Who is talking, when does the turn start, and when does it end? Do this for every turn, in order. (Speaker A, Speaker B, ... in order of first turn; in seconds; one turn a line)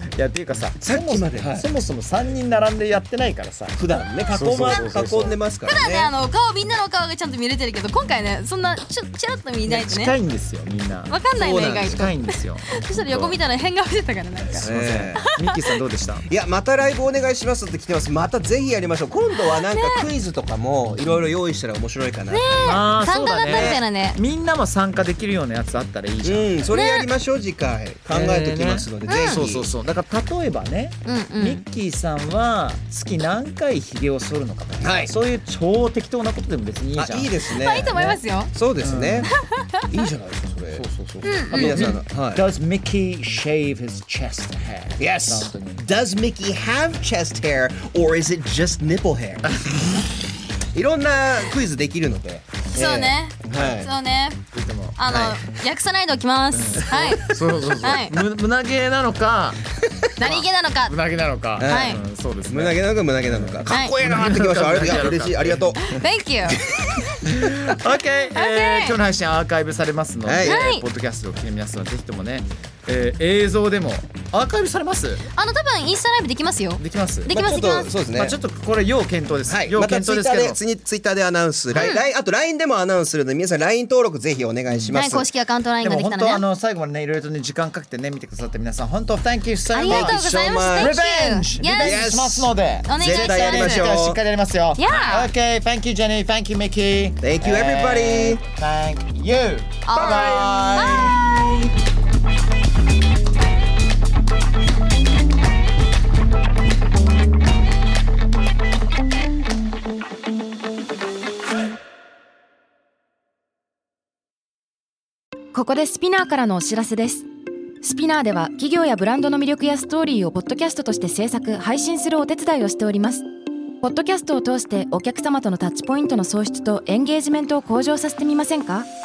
Speaker A: 0.1-3.8
Speaker B: 0.8-1.7
Speaker B: 3.8-6.1
Speaker C: 4.2-5.1
Speaker A: 4.3-5.3
Speaker C: 5.6-10.2
Speaker A: 9.7-11.2
Speaker C: 11.1-15.8
Speaker B: 11.3-12.1
Speaker A: 11.8-13.4
Speaker A: 14.6-16.2
Speaker B: 14.6-15.3
Speaker B: 16.3-22.8
Speaker C: 19.5-20.1
Speaker C: 22.3-24.2
Speaker A: 22.6-26.6
Speaker B: 23.4-23.8
Speaker B: 26.2-29.7
Speaker C: 26.7-27.1
Speaker A: 28.1-37.3
Speaker C: 29.1-29.4
Speaker C: 31.1-31.6
Speaker B: 34.8-35.1
Speaker B: 37.0-39.3
Speaker C: 37.5-38.5
Speaker A: 38.8-39.3
Speaker C: 39.3-39.8
Speaker B: 39.9-40.8
Speaker A: 40.7-45.9
Speaker C: 41.2-42.0
Speaker B: 41.5-42.4
Speaker B: 45.0-49.5
Speaker B: 50.7-53.9
Speaker C: 52.7-58.2
Speaker A: 53.5-53.9
Speaker A: 54.5-55.0
Speaker B: 55.1-55.4
Speaker A: 56.5-66.0
Speaker C: 60.2-60.9
Speaker B: 61.6-66.0
Speaker C: 61.6-62.0
Speaker C: 63.6-63.9
Speaker C: 65.8-66.6
Speaker B: 66.5-67.2
Speaker A: 67.2-75.2
Speaker C: 68.3-69.0
Speaker B: 70.2-70.6
Speaker C: 70.4-70.8
Speaker C: 75.3-77.9
Speaker A: 76.8-77.5
Speaker B: 77.3-78.4
Speaker A: 78.1-80.6
Speaker B: 79.5-85.3
Speaker C: 81.8-82.0
Speaker A: 84.7-85.0
Speaker C: 84.9-86.4
Speaker A: 85.8-90.2
Speaker C: 89.7-92.0
Speaker B: 89.8-91.0
Speaker A: 90.7-101.7
Speaker B: 91.6-94.2
Speaker C: 92.8-93.9
Speaker C: 94.8-95.3
Speaker B: 97.2-98.4
Speaker C: 99.8-101.2
Speaker B: 100.0-100.6
Speaker D: 115.5-117.3
Speaker D: 117.8-123.2
Speaker D: 123.8-128.9